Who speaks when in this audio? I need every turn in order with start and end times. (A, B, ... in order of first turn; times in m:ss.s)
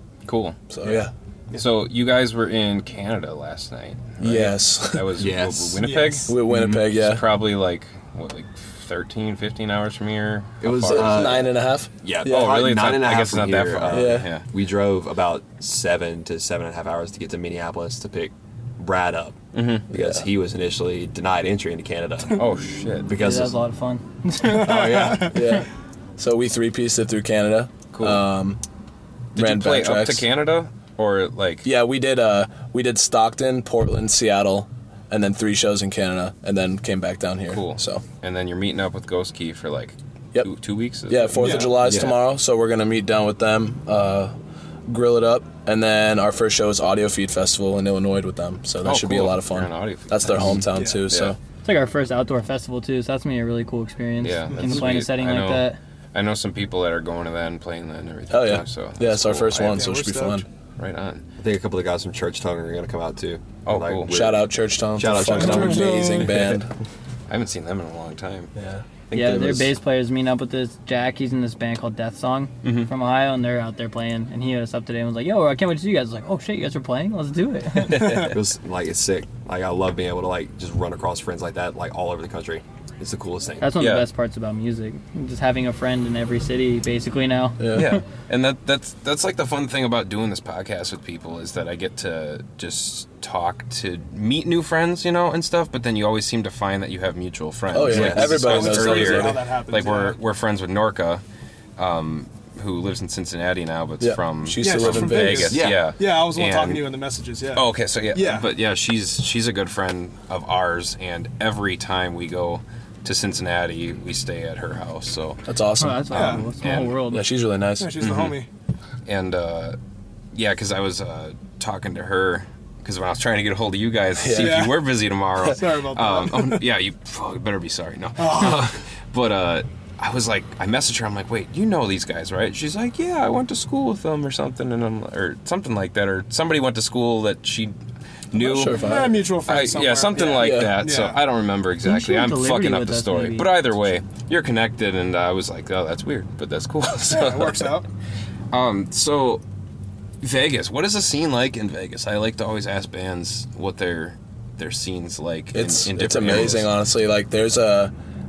0:00.2-0:00.6 A
0:00.7-0:01.1 B
0:00.8-0:01.6 C
0:01.5-0:11.4 A
0:04.2-0:05.2 B
0:05.2-0:05.9 C
0:05.8-0:06.4 D
0:06.3-0:07.2 B
0:06.4-0:06.8 C
0:10.6-0:22.4 C
0:10.8-0:12.5 B
0:12.2-0:14.4 A
0:13.9-0:14.3 B
0:19.5-0:19.8 A
0:19.9-0:20.2 B
0:22.3-0:23.1 A
0:23.0-0:23.5 C
0:23.1-0:24.8 E
0:24.4-0:25.5 D
0:24.4-0:25.4 C
0:25.2-0:28.6 B
0:27.9-0:28.2 A
0:29.3-0:31.7 A
0:29.4-0:30.2 B
0:31.6-0:38.0 B
0:37.5-0:42.1 A
0:41.1-0:44.3 B
0:41.4-0:41.7 D
0:41.8-0:42.2 C
0:44.9-0:51.4 B
0:48.8-0:51.3 A
0:50.7-0:51.0 D
0:51.6-0:55.8 E
0:54.2-0:59.9 A
0:54.5-0:54.9 D
0:58.3-1:00.4 B
0:59.7-1:00.4 D
1:00.8-1:01.2 A
1:01.4-1:06.6 C
1:03.6-1:04.1 A
1:04.1-1:06.8 B
1:05.2-1:06.4 D
1:07.3-1:08.5 A
1:08.6-1:09.6 B
1:09.1-1:18.2 E
1:09.2-1:09.6 A
1:12.6-1:12.9 A
1:17.8-1:18.3 A
1:18.1-1:23.7 C
1:23.6-1:28.0 E
1:23.8-1:24.1 A
1:27.6-1:27.9 B
1:27.7-1:41.2 A
1:37.7-1:39.4 B
1:37.9-1:38.4 C
1:38.2-1:40.2 D
1:41.8-1:46.8 A
1:44.0-1:45.6 B
1:44.6-1:48.5 D
1:45.5-1:45.8 C
1:47.5-1:55.4 A
1:55.4-1:56.4 B
1:55.8-1:57.3 E
1:56.1-1:56.5 D
1:56.1-1:56.9 A
1:57.1-1:58.1 B
1:57.8-1:58.5 D
1:58.0-1:58.3 A
1:59.0-1:59.8 A
2:00.3-2:17.7 A
2:04.2-2:04.7 B
2:04.3-2:04.8 D
2:05.4-2:06.6 D
2:08.2-2:08.7 D
2:18.3-2:27.7 A
2:18.3-2:19.2 B
2:18.7-2:21.2 D
2:20.4-2:20.7 B
2:21.8-2:23.5 E
2:27.1-2:27.8 D
2:28.5-2:29.4 A
2:30.2-2:36.7 A
2:35.5-2:37.9 B